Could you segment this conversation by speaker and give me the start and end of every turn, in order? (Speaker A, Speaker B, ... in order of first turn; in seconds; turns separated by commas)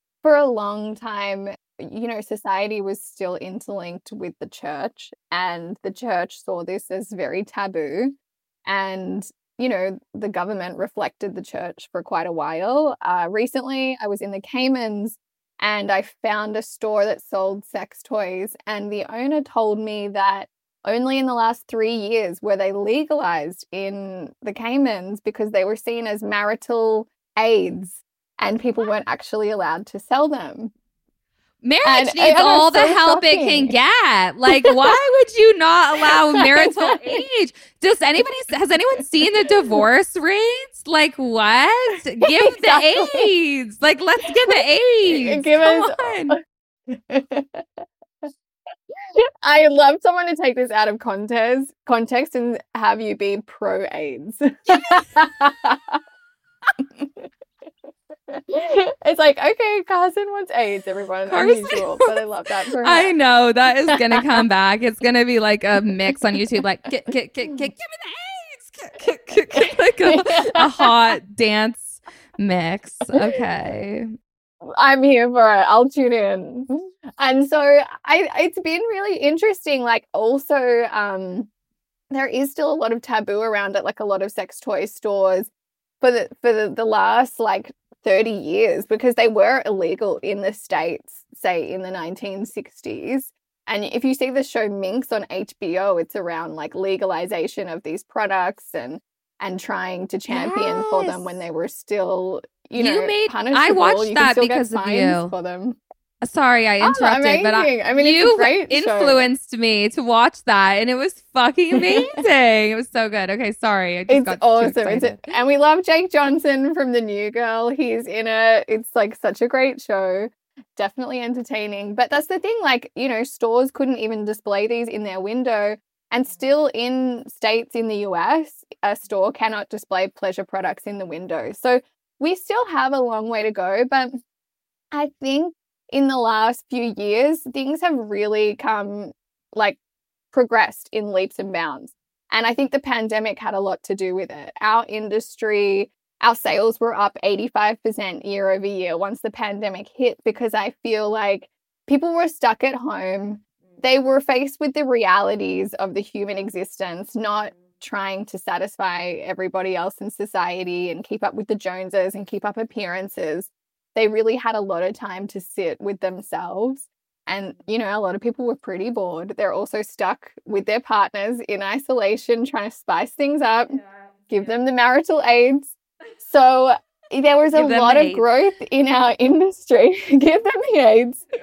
Speaker A: 0.2-30.7, Speaker B: 31.6-46.4, Speaker A: 31.9-33.8, Speaker A: 34.5-35.0, Speaker A: 36.0-37.0, Speaker A: 42.2-43.3, Speaker A: 44.3-46.4, Speaker A: 46.9-48.3, Speaker A: 49.2-56.0, Speaker A: 56.8-57.3, Speaker A: 58.3-63.1, Speaker B: 61.3-62.2, Speaker B: 62.8-74.1, Speaker A: 63.9-64.2, Speaker A: 69.6-70.9, Speaker A: 74.7-81.5, Speaker A: 82.1-85.5, Speaker A: 86.0-105.8, Speaker B: 100.3-101.4, Speaker B: 102.8-105.3, Speaker B: 106.2-115.2, Speaker A: 106.8-109.2, Speaker A: 111.8-112.2, Speaker A: 114.1-134.1, Speaker A: 134.9-139.8, Speaker A: 140.3-181.2, Speaker B: 177.5-178.3